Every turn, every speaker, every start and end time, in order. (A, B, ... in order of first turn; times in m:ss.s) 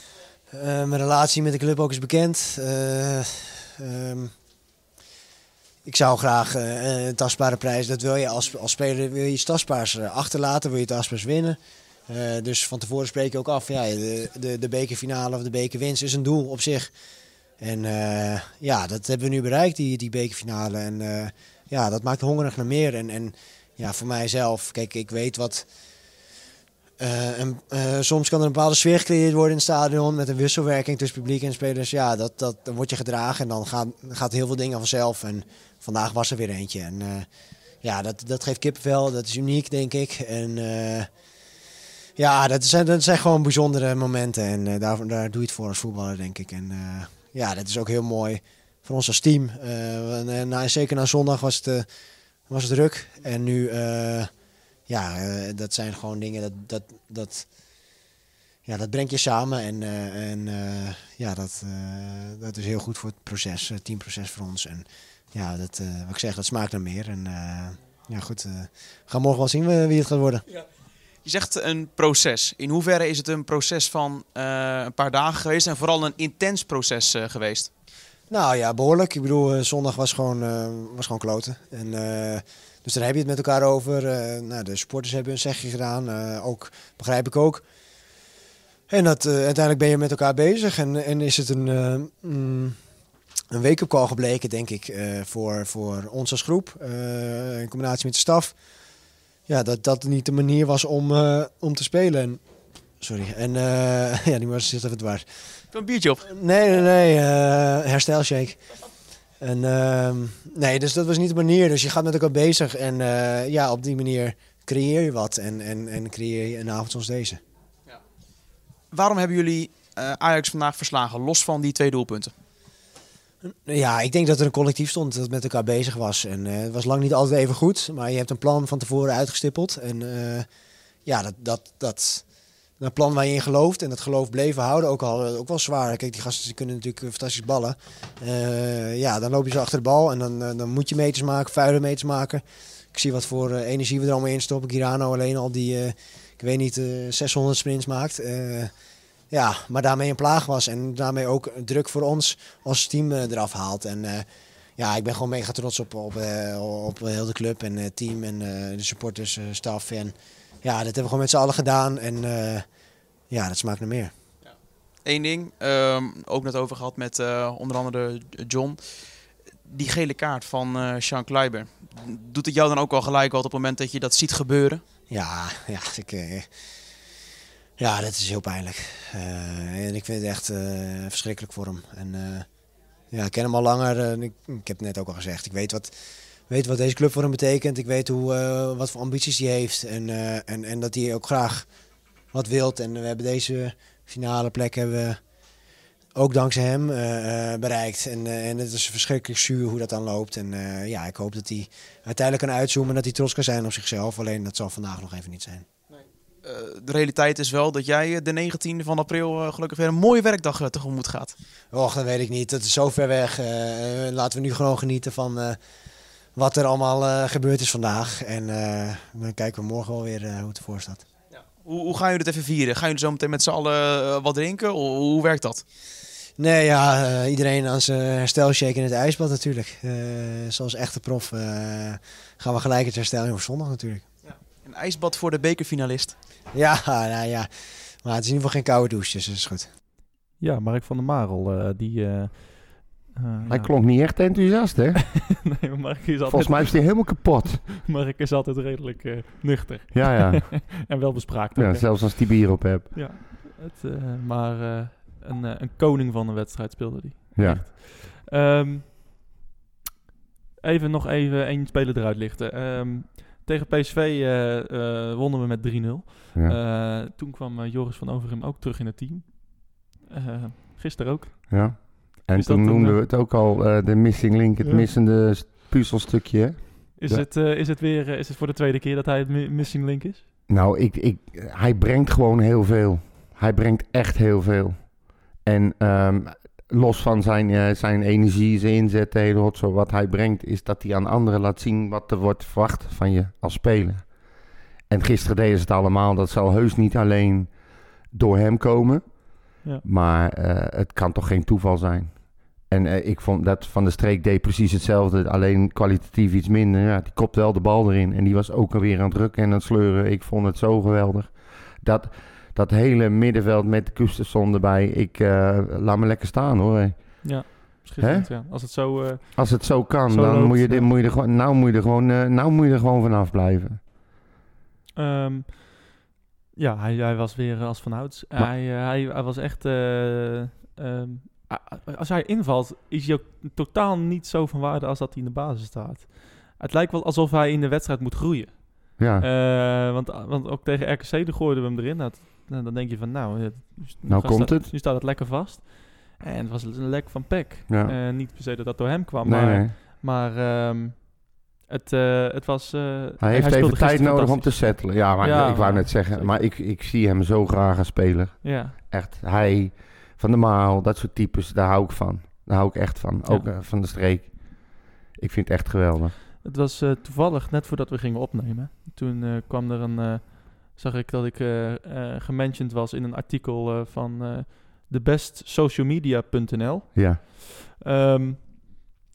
0:00.5-0:04.3 A
0:05.8-0:16.9 A
0:17.6-0:25.7 A
0:27.0-0:37.3 A
0:37.8-0:41.1 A
0:42.2-0:51.9 A
0:52.5-0:54.3 A
0:54.9-0:57.5 A
0:58.7-1:10.4 A
1:11.2-1:17.7 B
1:18.3-1:27.6 A
1:28.9-1:32.8 A
1:33.5-1:38.5 A
1:39.5-1:42.4 A
1:43.0-1:45.2 A
1:45.7-1:46.3 B
1:46.3-1:48.6 A
1:49.4-1:57.4 A
1:58.9-2:02.3 B
2:03.4-2:10.5 A
2:11.0-2:12.2 A
2:12.8-2:28.7 A
2:29.3-2:34.3 A
2:34.8-2:42.6 A
2:43.3-2:44.1 A
2:45.0-2:48.8 B
2:49.7-2:54.8 B
2:55.1-2:56.5 A
2:57.8-3:02.5 A
3:03.1-3:05.9 A
3:06.5-3:11.7 A
3:12.3-3:15.2 A
3:16.2-3:25.7 A
3:26.4-3:31.4 B
3:31.7-3:35.6 A
3:36.4-3:41.0 A
3:41.6-3:45.6 B
3:46.4-3:54.1 A
3:54.6-3:56.2 B
3:56.5-3:57.5 A
3:58.0-3:59.7 A
4:00.4-4:03.7 C
4:03.5-4:05.0 D
4:05.2-4:19.0 C
4:06.3-4:07.6 D
4:09.9-4:10.7 D
4:11.6-4:12.9 D
4:17.4-4:17.6 D
4:20.6-4:33.0 C
4:31.5-4:37.3 D
4:34.6-4:34.9 C
4:37.0-4:40.2 C
4:40.5-4:54.2 D
4:54.9-4:57.6 D
4:58.1-4:59.2 D
4:59.8-5:18.6 D
5:17.2-5:20.9 C
5:19.3-5:23.8 D
5:25.0-5:26.0 C
5:26.6-5:56.4 C
5:39.0-5:39.3 D
5:44.0-5:44.7 D
5:47.7-5:48.0 D
5:49.2-5:49.7 D
5:53.2-6:06.2 D
5:58.4-5:58.8 C
6:06.4-6:18.6 C
6:17.0-6:17.2 D